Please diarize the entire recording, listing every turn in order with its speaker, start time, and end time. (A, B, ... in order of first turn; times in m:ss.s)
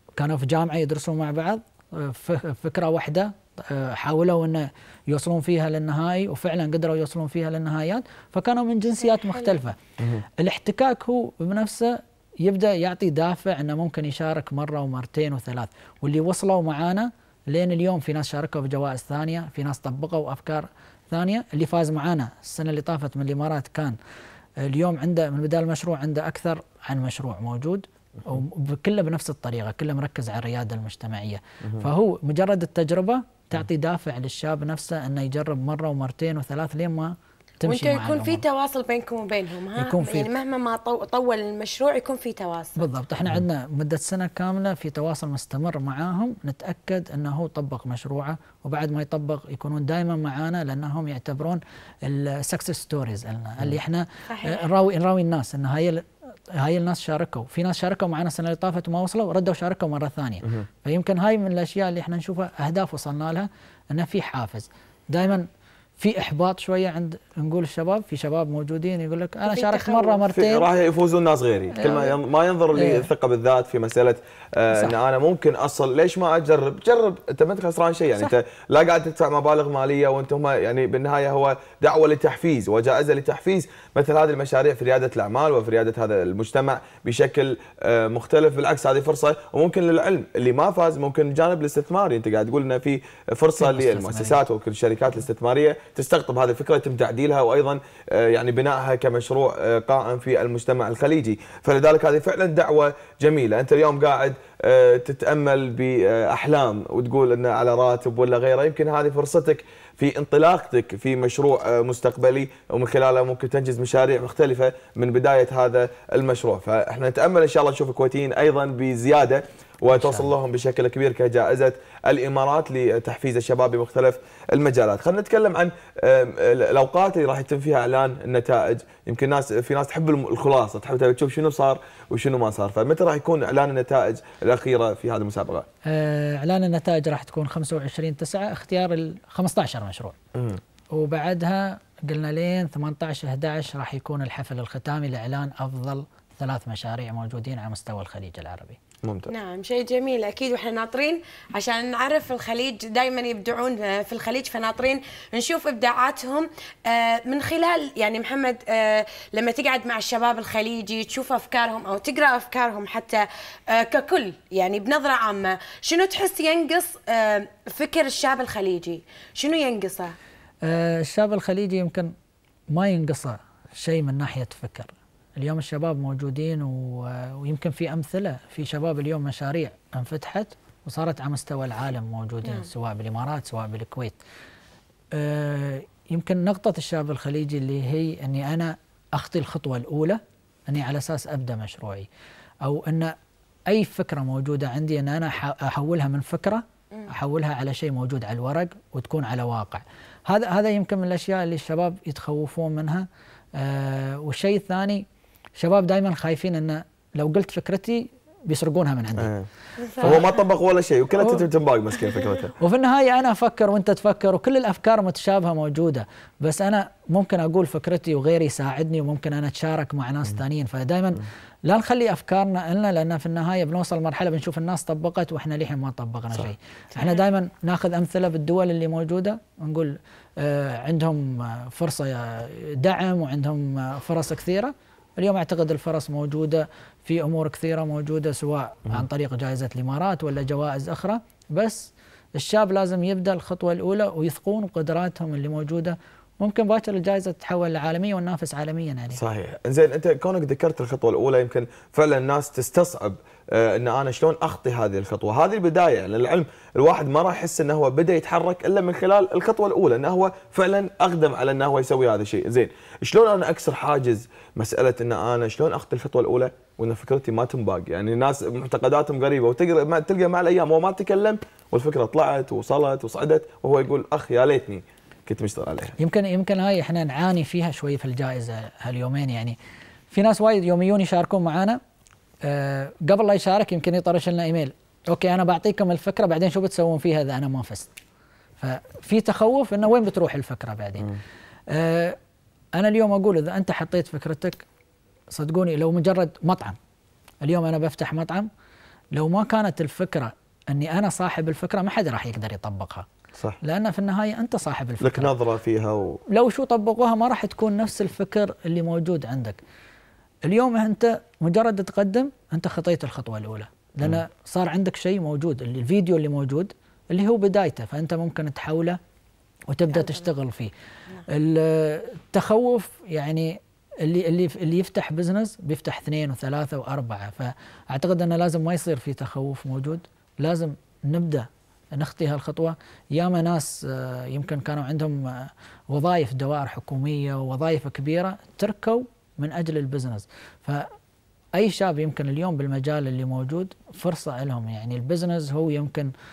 0:00.2-0:09.8 A
0:09.0-0:09.6 B
0:10.0-0:10.2 C
0:10.4-0:24.0 A
0:24.6-0:38.4 A
0:37.6-0:42.8 B
0:39.8-0:40.3 A
0:42.8-1:05.5 A
0:54.3-0:54.6 B
1:06.0-1:10.7 A
1:09.5-1:10.2 B
1:10.3-2:15.7 C
1:11.7-1:12.1 A
1:12.7-1:13.1 A
1:33.6-1:34.4 A
1:59.9-2:00.3 A
2:15.9-2:20.2 A
2:20.3-2:20.6 C
2:20.9-2:28.8 A
2:29.0-2:29.3 C
2:29.3-2:50.1 B
2:50.6-2:52.1 A
2:52.7-3:04.2 A
3:05.1-3:12.1 A
3:12.6-3:13.1 A
3:13.7-3:25.0 A
3:25.6-3:29.3 A
3:29.2-3:29.5 C
3:29.8-3:30.2 B
3:30.0-3:30.3 A
3:30.0-3:32.5 C
3:32.6-4:09.2 A
3:47.0-3:47.2 B
4:09.1-4:36.0 C
4:36.0-4:39.6 A
4:40.1-4:41.8 A
4:42.4-4:47.9 A
4:48.6-4:51.1 A
4:51.7-4:52.2 A
4:52.8-4:54.6 A
4:55.3-4:56.8 A
4:57.4-4:58.5 A
4:59.1-5:03.1 A
5:03.6-5:05.3 A
5:05.0-5:06.2 C
5:06.3-5:09.6 A
5:10.5-5:19.0 A
5:19.7-5:20.7 A
5:21.3-5:40.9 A
5:41.6-5:46.1 A